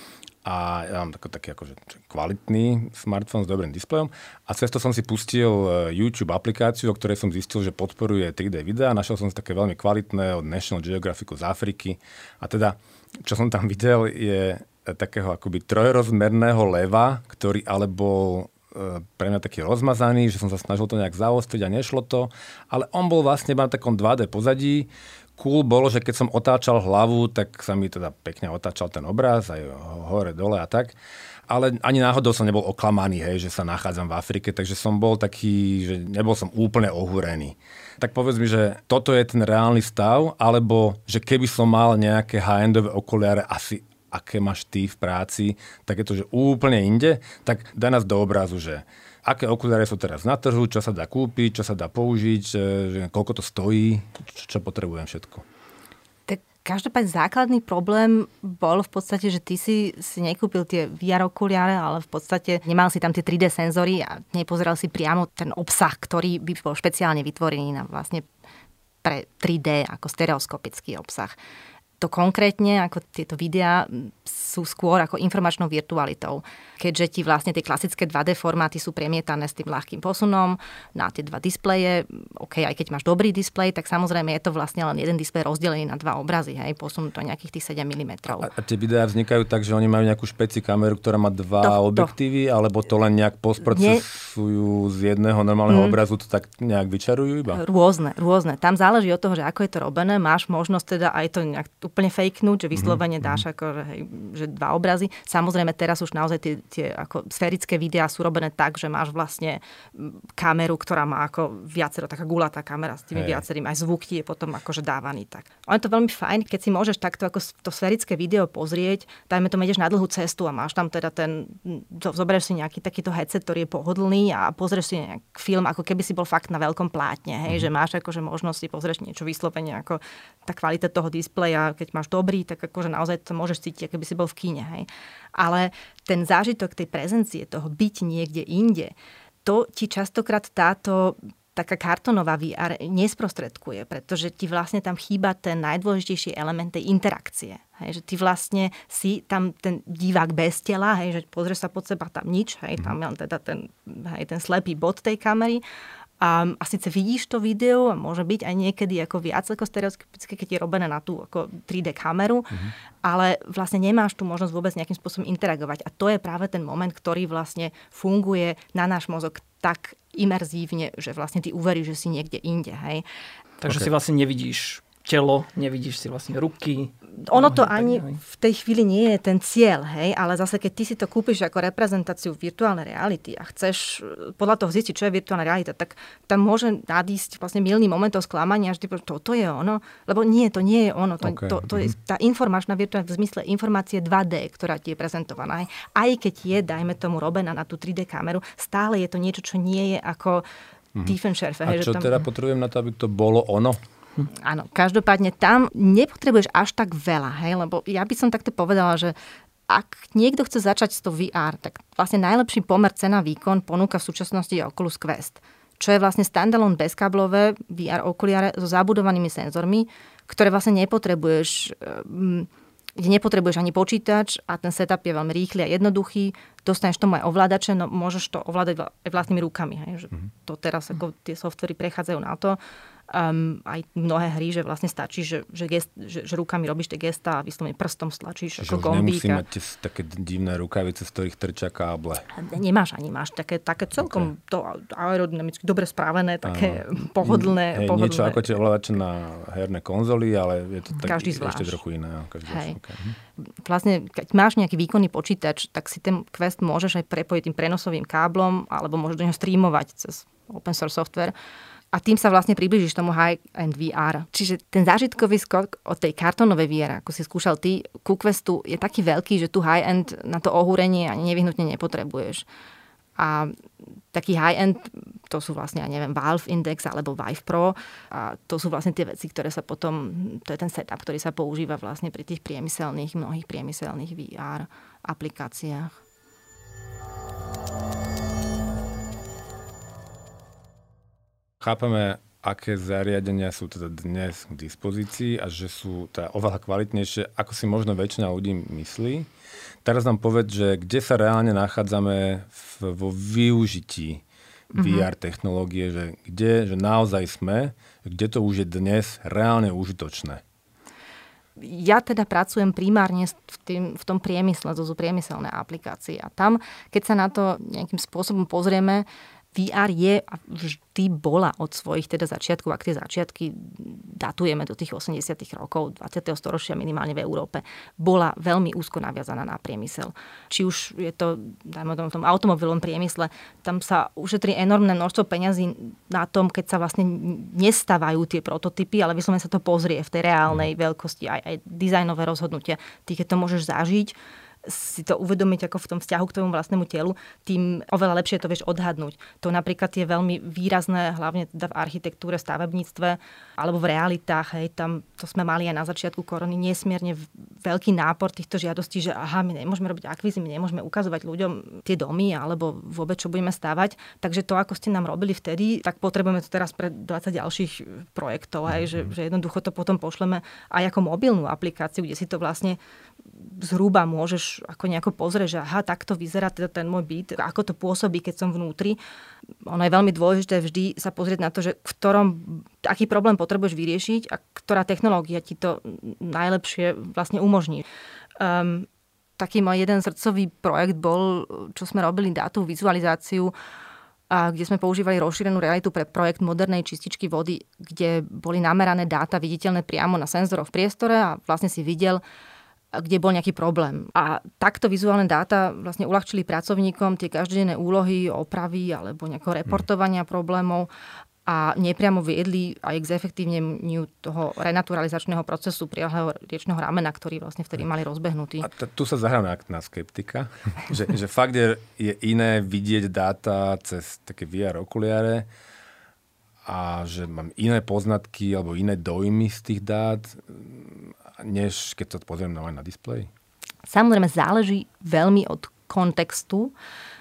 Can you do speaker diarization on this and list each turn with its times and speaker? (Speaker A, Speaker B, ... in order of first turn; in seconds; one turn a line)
Speaker A: 0.4-30.9
Speaker A: 31.5-55.5
Speaker B: 56.3-68.3
Speaker B: 69.0-71.4
Speaker B: 72.0-88.5
Speaker A: 88.4-97.6
Speaker B: 91.6-92.1
Speaker B: 93.7-94.0
Speaker B: 95.7-96.0
Speaker B: 97.5-138.9
Speaker A: 102.8-103.4
Speaker A: 113.1-113.4
Speaker B: 139.4-155.6
Speaker B: 156.2-173.0
Speaker C: 173.6-178.2
Speaker B: 177.2-200.4
Speaker A: 191.2-191.9
Speaker B: 201.0-202.2
Speaker A: 201.7-203.8
Speaker B: 204.3-209.2
Speaker B: 209.7-232.6
Speaker B: 233.1-239.4
Speaker A: 238.6-242.3
Speaker B: 242.3-248.5
Speaker A: 244.0-244.3
Speaker A: 246.5-253.2
Speaker B: 251.0-251.8
Speaker B: 252.5-252.8
Speaker B: 253.4-261.3
Speaker B: 261.9-272.5
Speaker B: 273.2-273.6
Speaker B: 274.1-285.9
Speaker A: 291.6-299.3
Speaker A: 299.8-304.2
Speaker B: 304.7-305.1
Speaker A: 304.7-310.4
Speaker B: 311.6-372.8
Speaker B: 373.3-379.0
Speaker B: 379.6-387.8
Speaker B: 388.4-388.9
Speaker B: 389.4-393.5
Speaker B: 394.3-402.2
Speaker B: 402.9-410.9
Speaker B: 411.5-418.7
Speaker A: 418.6-425.5
Speaker A: 426.6-433.3
Speaker B: 433.9-436.7